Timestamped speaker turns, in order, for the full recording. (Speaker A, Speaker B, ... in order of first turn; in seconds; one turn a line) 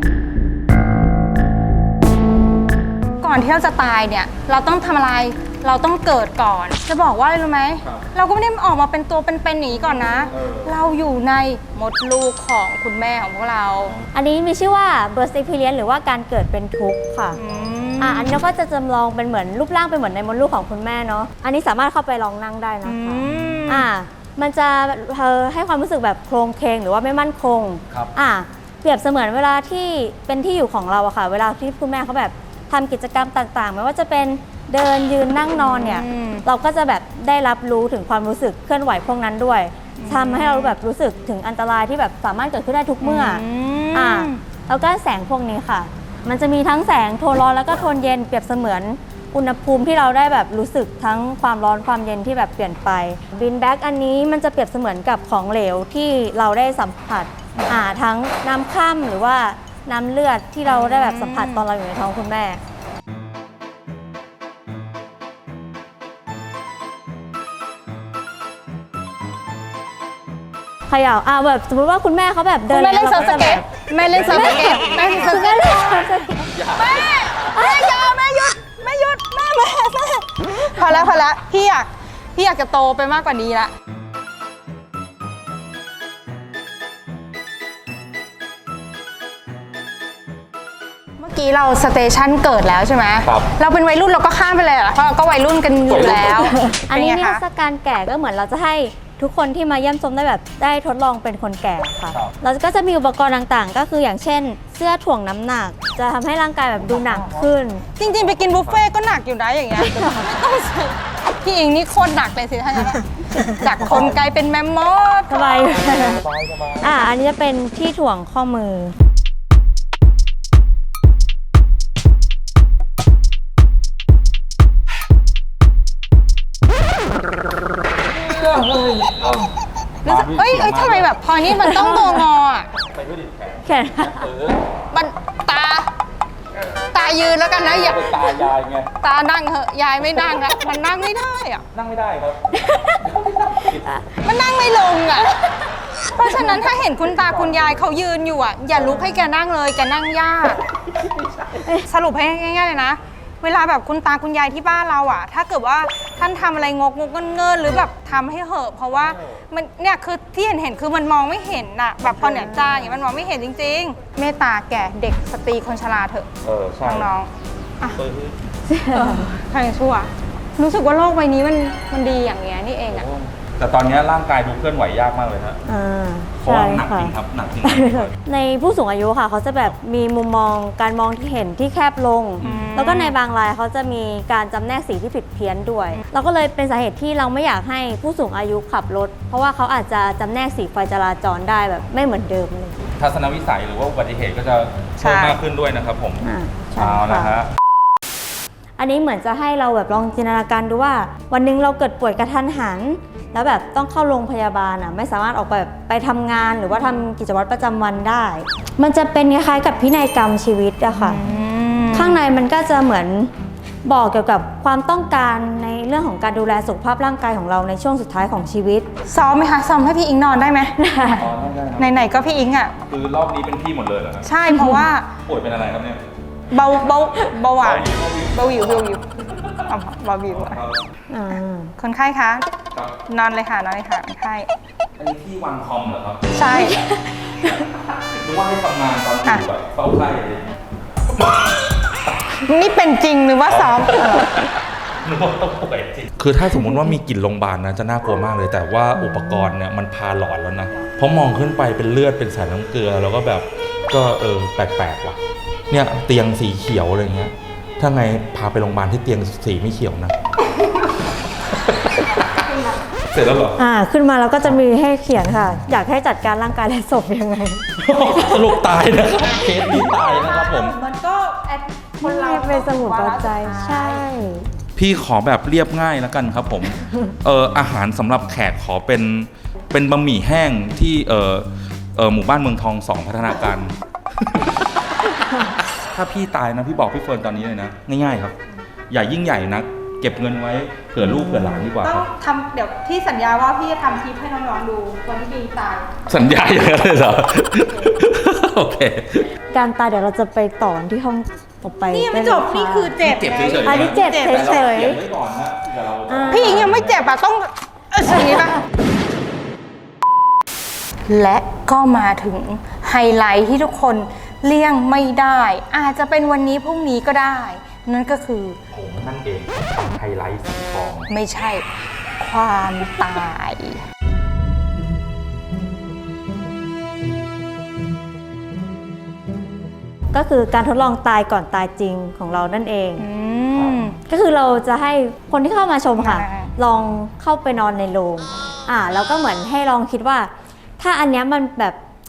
Speaker A: 3.2-13.9
Speaker B: 10.3-10.7
Speaker C: 14.1-17.4
Speaker A: 17.4-18.4
Speaker C: 18.0-43.4
Speaker A: 22.8-23.9
Speaker B: 23.3-23.6
Speaker A: 35.5-36.4
Speaker A: 40.0-40.8
Speaker A: 43.0-44.4
Speaker C: 43.9-62.6
Speaker A: 60.6-61.7
Speaker C: 70.9-76.5
Speaker A: 72.7-76.0
Speaker B: 74.1-74.9
Speaker B: 76.5-77.7
Speaker A: 76.8-83.7
Speaker C: 77.6-78.0
Speaker A: 91.2-97.4
Speaker B: 93.2-93.5
Speaker B: 95.9-96.5
Speaker C: 96.2-107.8
Speaker B: 106.8-108.8
Speaker A: 108.0-115.6
Speaker C: 109.8-110.3
Speaker C: 113.3-114.0
Speaker B: 113.8-114.2
Speaker C: 115.3-116.2
Speaker B: 115.8-117.1
Speaker C: 116.8-119.0
Speaker A: 130.0-132.7
Speaker B: 130.0-131.1
Speaker C: 131.5-132.2
Speaker B: 132.8-134.7
Speaker C: 133.6-134.3
Speaker A: 134.9-135.9
Speaker A: 136.9-138.5
Speaker B: 137.6-138.9
Speaker A: 139.0-141.6
Speaker B: 141.7-144.0
Speaker C: 142.6-143.0
Speaker A: 144.2-145.5
Speaker A: 146.0-150.6
Speaker B: 147.3-147.8
Speaker B: 148.8-149.1
Speaker B: 150.9-151.6
Speaker A: 151.7-166.3
Speaker B: 158.9-159.4
Speaker C: 162.1-163.0
Speaker B: 166.4-167.1
Speaker A: 166.8-168.0
Speaker B: 167.9-168.4
Speaker C: 168.7-169.4
Speaker A: 168.9-173.1
Speaker B: 172.9-175.6
Speaker C: 175.7-192.8
Speaker B: 176.4-178.1
Speaker A: 182.4-183.2
Speaker B: 182.4-182.7
Speaker B: 193.0-197.5
Speaker A: 195.0-195.4
Speaker C: 196.2-197.3
Speaker C: 198.8-211.2
Speaker A: 211.0-212.2
Speaker C: 211.9-213.3
Speaker C: 213.8-218.9
Speaker A: 219.1-221.2
Speaker C: 220.8-221.2
Speaker B: 221.2-221.9
Speaker A: 221.8-222.8
Speaker B: 222.9-224.3
Speaker A: 224.2-225.1
Speaker C: 224.5-224.9
Speaker B: 225.2-226.0
Speaker A: 226.5-229.0
Speaker B: 227.6-229.6
Speaker A: 229.7-230.6
Speaker B: 230.3-230.8
Speaker C: 231.1-231.7
Speaker A: 231.8-232.4
Speaker A: 233.1-234.5
Speaker B: 235.0-236.3
Speaker A: 236.3-236.9
Speaker B: 237.8-240.5
Speaker A: 242.4-244.5
Speaker B: 243.5-244.5
Speaker B: 245.0-255.2
Speaker C: 246.6-246.9
Speaker B: 255.7-260.1
Speaker A: 261.9-262.8
Speaker B: 263.1-263.6
Speaker C: 263.6-267.6
Speaker B: 267.8-270.8
Speaker A: 269.8-274.0
Speaker C: 272.0-274.5
Speaker B: 274.8-284.5
Speaker C: 276.8-277.1
Speaker C: 285.1-285.6
Speaker B: 285.9-288.4
Speaker B: 288.9-292.1
Speaker C: 291.1-291.6
Speaker A: 291.8-295.9
Speaker B: 296.1-299.3
Speaker C: 299.5-303.0
Speaker A: 301.9-304.7
Speaker B: 303.0-307.0
Speaker C: 303.6-305.0
Speaker C: 306.1-306.7
Speaker A: 306.3-308.6
Speaker A: 311.1-318.6
Speaker B: 318.7-321.1
Speaker A: 321.1-321.6
Speaker A: 322.2-323.8
Speaker C: 330.1-333.0
Speaker A: 333.0-334.0
Speaker C: 334.1-341.8
Speaker A: 336.0-336.5